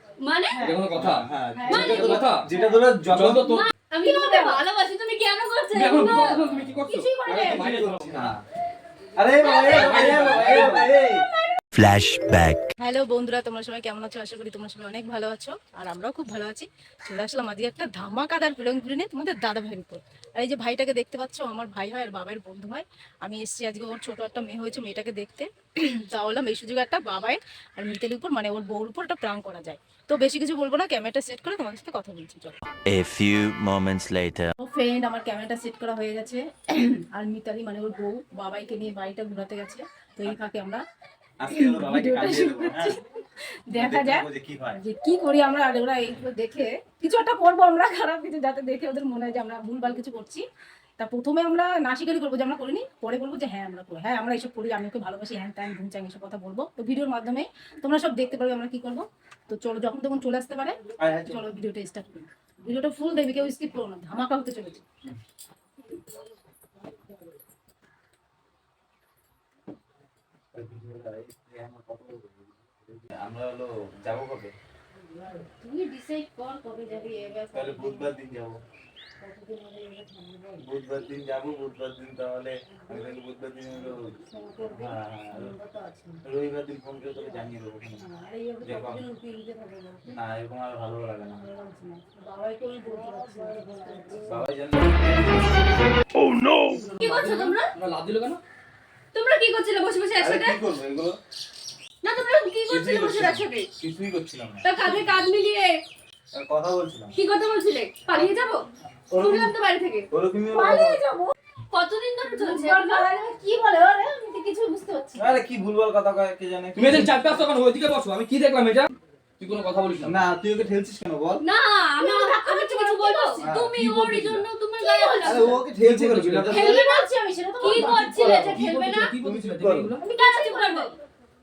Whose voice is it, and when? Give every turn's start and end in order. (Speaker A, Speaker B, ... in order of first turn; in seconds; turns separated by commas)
Speaker A: 0.2-0.6, Speaker B: 0.6-0.8, Speaker C: 0.6-2.4, Speaker D: 0.9-3.5, Speaker B: 1.6-2.9, Speaker A: 1.7-2.2, Speaker C: 3.1-3.7, Speaker A: 3.4-6.5, Speaker B: 4.0-4.6, Speaker C: 5.7-8.3, Speaker B: 6.9-7.8, Speaker D: 7.3-8.4, Speaker D: 9.2-11.2, Speaker B: 9.4-11.6, Speaker C: 9.6-10.9, Speaker E: 11.7-12.7, Speaker B: 12.8-32.6, Speaker E: 32.9-34.5, Speaker B: 34.6-40.8, Speaker D: 41.4-43.0, Speaker B: 41.5-43.0, Speaker B: 43.7-44.2, Speaker D: 43.8-44.8, Speaker B: 44.8-50.4, Speaker B: 51.0-64.8, Speaker D: 61.0-61.4, Speaker D: 70.5-74.5, Speaker B: 75.3-78.1, Speaker D: 77.5-78.6, Speaker B: 79.2-80.6, Speaker D: 80.6-84.1, Speaker B: 84.3-86.2, Speaker D: 84.7-85.5, Speaker D: 86.2-88.1, Speaker B: 88.0-90.2, Speaker D: 88.6-89.0, Speaker D: 90.1-91.5, Speaker B: 91.4-94.4, Speaker D: 94.3-95.8, Speaker C: 96.9-98.4, Speaker A: 97.0-97.7, Speaker A: 99.1-100.6, Speaker D: 100.2-101.2, Speaker A: 102.0-103.7, Speaker D: 102.7-104.7, Speaker A: 104.6-105.8, Speaker D: 106.3-107.2, Speaker A: 107.2-108.7, Speaker D: 109.1-109.5, Speaker A: 109.2-110.1, Speaker D: 110.1-111.0, Speaker B: 110.5-111.3, Speaker A: 111.7-113.1, Speaker B: 112.3-115.4, Speaker D: 115.2-117.2, Speaker C: 116.8-120.3, Speaker D: 120.0-121.4, Speaker A: 121.4-125.6, Speaker B: 122.0-123.4, Speaker D: 123.4-123.8, Speaker C: 123.8-124.4, Speaker B: 124.8-125.6, Speaker D: 125.2-126.8, Speaker C: 125.8-126.7, Speaker B: 126.5-129.1, Speaker A: 126.5-127.1, Speaker A: 127.6-129.2, Speaker D: 127.7-129.9, Speaker C: 128.5-130.1, Speaker B: 130.0-130.9, Speaker A: 130.2-130.9